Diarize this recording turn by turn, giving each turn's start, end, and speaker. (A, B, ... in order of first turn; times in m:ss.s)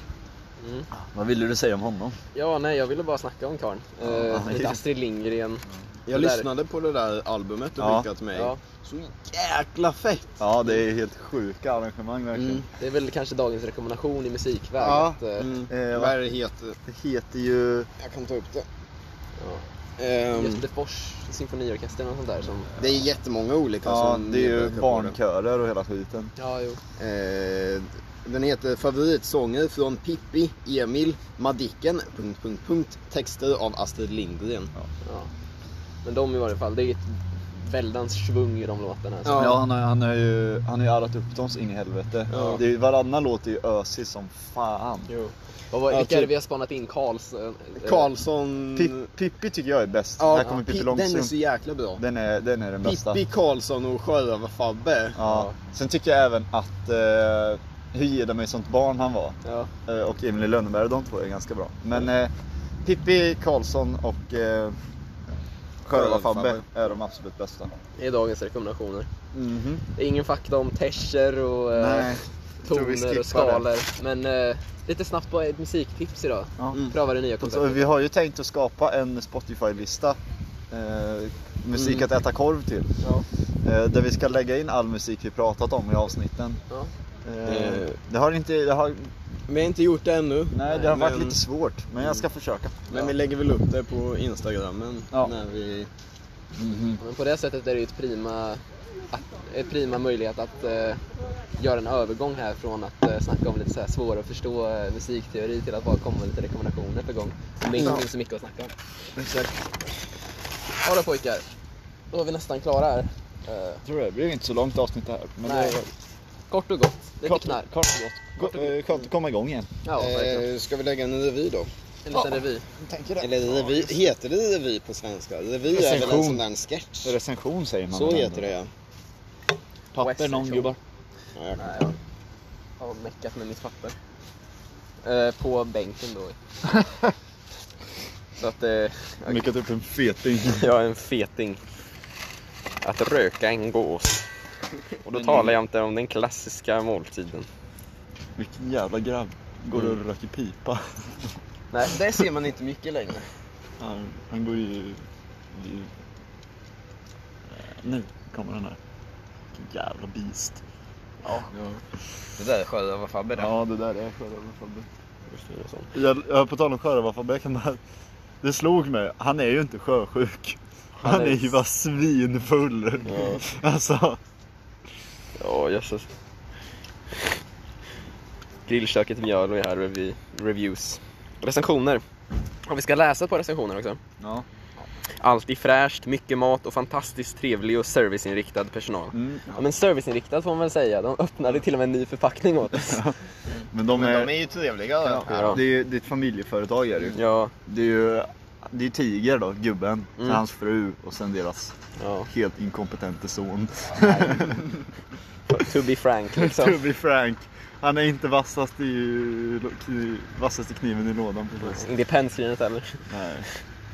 0:00.6-0:00.9 A
0:01.0-0:02.2 B
0:02.3-0:06.5 A
0:04.0-0:04.8 B
0:06.1-0:10.8 C
0:07.8-0:08.1 B
0:10.4-0:12.6 B
0:12.3-0:12.6 C
0:12.8-0:15.5 A
0:14.8-0:15.2 B
0:15.4-0:16.8 C
0:15.7-0:16.2 B
0:16.8-0:17.9 B
0:18.0-0:18.6 C
0:19.4-0:19.6 A
0:20.0-0:20.6 C
0:20.3-0:22.7 A
0:22.8-0:25.1 C
0:23.8-0:26.3 B
0:26.4-0:26.8 A
0:27.0-0:34.7 C
0:35.0-0:35.3 A
0:36.0-0:39.5 A
0:39.2-0:39.6 C
0:39.4-0:45.1 B
0:42.3-0:42.6 C
0:42.3-0:42.6 A
0:45.1-0:48.1 A
0:45.9-0:46.3 C
0:47.8-0:49.1 C
0:48.8-0:51.3 B
0:50.2-0:52.0 C
0:52.0-0:53.2 B
0:52.8-0:55.2 C
0:55.2-1:02.3 B
0:55.2-0:55.6 A
0:59.4-0:59.7 A
1:02.8-1:04.8 B
1:05.8-1:07.7 B
1:05.9-1:06.6 C
1:08.0-1:09.1 A
1:09.3-1:09.8 B
1:09.9-1:17.9 A
1:11.7-1:13.6 B
1:17.4-1:20.2 B
1:20.7-1:23.0 B
1:21.8-1:22.0 C
1:23.6-1:26.6 B
1:27.2-1:29.1 B
1:27.4-1:28.0 C
1:29.5-1:31.4 C
1:30.5-1:33.1 B
1:32.9-1:35.9 C
1:36.6-1:37.0 B
1:37.0-1:41.0 A
1:41.6-1:48.7 A
1:49.2-1:49.6 B
1:50.8-1:51.4 A
1:52.1-1:53.8 A
1:53.8-1:55.9 B
1:55.4-1:55.8 A
1:56.5-1:57.7 A
1:57.2-1:59.7 B
1:59.8-2:00.4 A
2:00.0-2:01.7 C
2:02.0-2:02.7 A
2:02.1-2:04.0 B
2:03.2-2:07.2 C
2:05.7-2:06.4 B
2:07.0-2:08.4 B
2:07.9-2:08.7 C
2:09.9-2:10.8 B
2:10.0-2:10.7 A
2:11.4-2:11.7 C
2:11.6-2:11.9 A
2:12.8-2:14.0 A
2:15.0-2:16.4 A
2:18.4-2:19.4 A
2:19.3-2:20.7 B
2:20.5-2:21.6 A
2:22.8-2:24.3 A
2:25.0-2:27.5 A
2:25.1-2:25.5 B
2:28.4-2:31.3 B
2:31.7-2:33.3 C
2:33.8-2:35.9 B
2:37.5-2:38.8 B
2:39.5-2:40.6 B
2:41.2-2:41.5 A
2:41.5-2:41.8 C
2:42.4-2:43.5 C
2:43.4-2:44.9 B
2:45.3-2:45.9 A
2:45.9-2:47.8 B
2:48.4-2:54.2 B
2:51.0-2:51.4 A
2:53.1-2:53.4 C
2:55.4-2:56.1 A
2:58.7-3:02.0 A
3:02.6-3:04.0 A
3:04.2-3:04.4 B
3:05.2-3:13.1 A
3:09.1-3:09.4 B
3:12.7-3:13.2 B
3:13.7-3:14.3 B
3:13.8-3:15.6 C
3:15.0-3:21.7 B
3:15.3-3:15.6 A
3:17.1-3:17.5 A
3:22.0-3:22.3 A
3:22.3-3:24.6 B
3:24.0-3:24.6 A
3:25.5-3:26.8 A
3:26.3-3:31.8 B
3:31.6-3:33.1 A
3:33.1-3:33.5 B